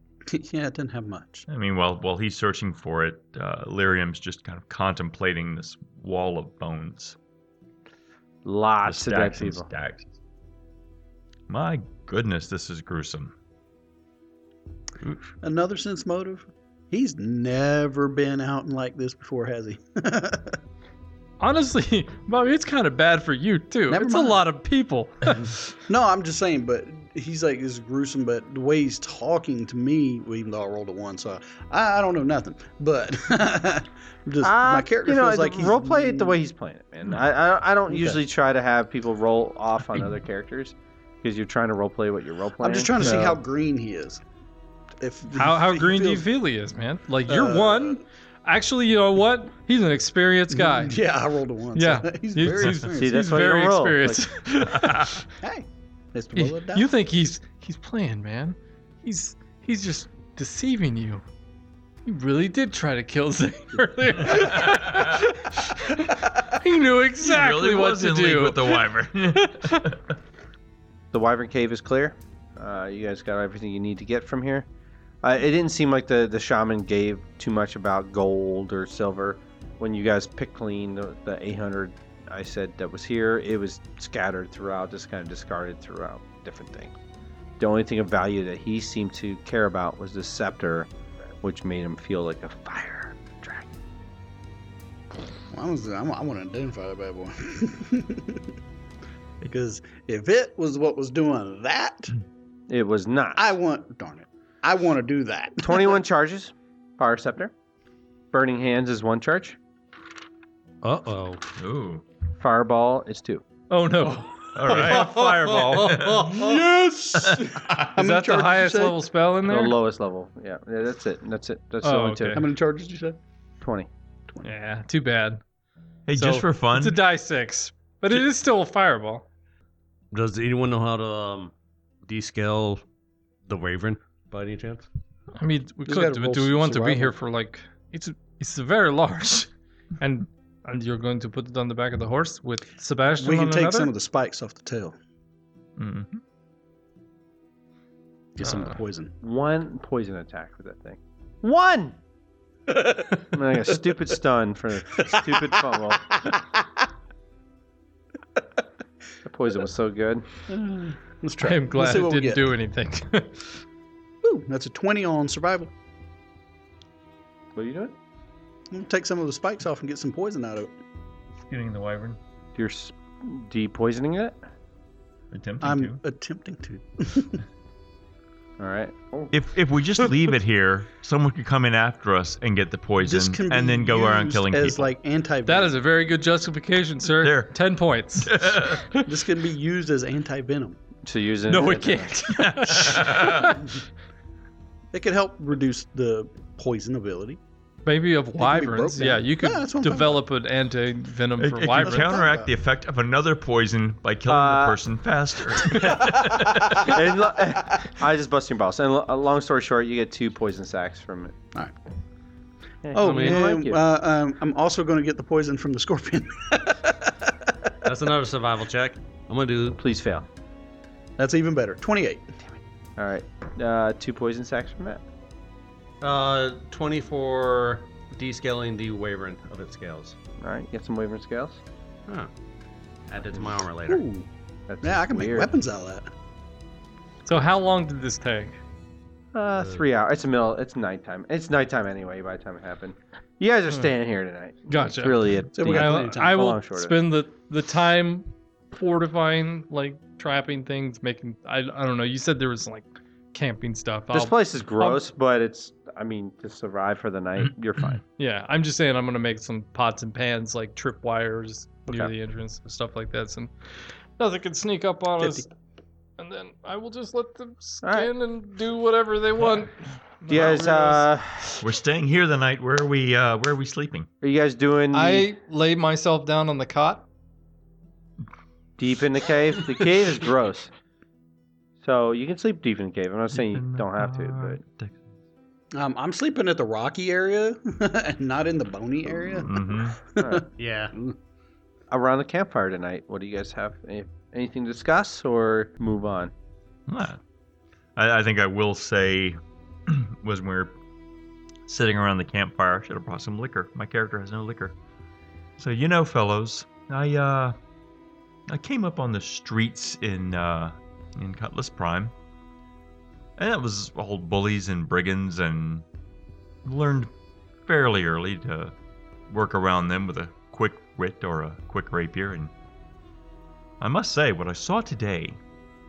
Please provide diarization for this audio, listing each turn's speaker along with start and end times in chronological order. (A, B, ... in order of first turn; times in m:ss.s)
0:00.3-0:01.4 A
0:01.5-0:07.2 B
0:08.4-0:09.7 C
0:08.8-0:10.1 B
0:11.5-0:13.3 B
0:15.4-0:20.6 A
0:21.4-0:25.5 D
0:23.9-0:24.4 A
0:25.9-0:36.4 A
0:34.4-0:43.4 C
0:37.9-0:38.2 A
0:42.6-0:44.2 A
0:45.0-0:46.2 A
0:45.4-0:51.0 D
0:47.3-0:48.0 A
0:50.5-0:53.2 A
0:51.8-0:55.2 D
0:53.0-0:54.2 C
0:54.7-0:55.2 B
0:55.4-0:56.9 A
0:56.4-1:01.2 D
1:02.0-1:09.9 D
1:04.3-1:05.2 B
1:07.2-1:10.0 B
1:11.1-1:14.7 C
1:15.2-1:26.9 C
1:27.6-1:30.9 C
1:31.4-1:33.7 C
1:35.5-1:38.4 A
1:39.4-1:42.1 A
1:42.7-1:43.5 C
1:43.4-1:46.0 A
1:45.6-1:47.5 C
1:48.3-1:49.6 C
1:50.8-1:51.4 E
1:51.6-1:52.0 B
1:52.4-1:53.4 C
1:53.7-1:56.2 D
1:54.5-1:56.3 B
1:54.7-1:56.6 E
1:56.2-1:59.0 A
1:57.2-1:57.9 B
1:58.0-1:59.8 D
1:59.4-2:02.4 C
2:01.8-2:02.4 D
2:02.3-2:03.2 A
2:03.6-2:03.9 C
2:04.4-2:05.4 D
2:06.1-2:07.0 B
2:06.1-2:09.2 D
2:10.1-2:11.5 E
2:12.0-2:12.8 E
2:13.4-2:14.9 E
2:15.4-2:23.9 D
2:15.8-2:17.2 A
2:23.2-2:25.0 A
2:25.8-2:26.2 B
2:28.4-2:29.1 A
2:29.2-2:32.0 C
2:33.2-2:36.2 C
2:35.0-2:35.4 A
2:36.1-2:36.4 A
2:39.2-2:40.3 C
2:40.5-2:42.5 A
2:41.4-2:43.6 D
2:44.2-2:45.7 A
2:47.5-2:48.0 C
2:48.7-2:50.7 A
2:51.4-2:52.2 B
2:52.5-2:54.4 C
2:55.3-2:56.0 B
2:55.6-2:57.4 A
2:58.6-2:59.3 C
2:59.3-3:04.9 B
3:03.0-3:05.7 A
3:05.4-3:09.0 D
3:07.1-3:07.6 B
3:08.2-3:09.0 B
3:09.0-3:10.8 A
3:11.0-3:12.2 C
3:11.5-3:13.7 D
3:12.3-3:13.6 B
3:14.9-3:17.4 A
3:17.8-3:22.2 D
3:18.4-3:20.2 A
3:21.4-3:27.0 B
3:21.8-3:22.5 A
3:24.3-3:24.8 C
3:26.6-3:31.3 C
3:32.8-3:33.8 C
3:32.9-3:37.5 A
3:33.0-3:33.6 E
3:37.8-3:39.8 E
3:39.8-3:40.3 C
3:41.2-3:42.5 A
3:43.0-3:45.0 C
3:46.0-3:50.2 E
3:50.4-3:51.6 C
3:53.1-3:54.0 E
3:53.9-3:54.3 A
3:54.7-3:55.5 C
3:54.8-3:56.1 A
3:57.2-3:58.6 D
3:59.3-4:07.0 C
3:59.6-3:59.8 E
4:04.7-4:15.0 D
4:05.5-4:06.4 A
4:14.1-4:18.0 C
4:18.2-4:23.5 D
4:24.2-4:25.5 D
4:25.2-4:25.4 A
4:26.2-4:31.0 D
4:27.8-4:28.1 C
4:30.3-4:31.6 C
4:31.6-4:34.1 B
4:34.2-4:35.3 C
4:34.9-4:37.1 D
4:38.8-4:40.7 C
4:41.8-4:44.6 C
4:43.3-4:45.0 B
4:45.7-4:51.1 A
4:49.2-4:50.0 B
4:50.2-4:50.4 C
4:50.6-4:50.9 E
4:51.9-4:56.3 C
4:56.9-4:57.2 B
4:58.0-5:00.8 B
5:01.6-5:04.8 B
5:05.6-5:07.6 B
5:08.5-5:12.1 B
5:13.4-5:15.8 B
5:16.6-5:17.1 B
5:17.6-5:18.7 B
5:19.3-5:22.5 B
5:23.8-5:25.4 B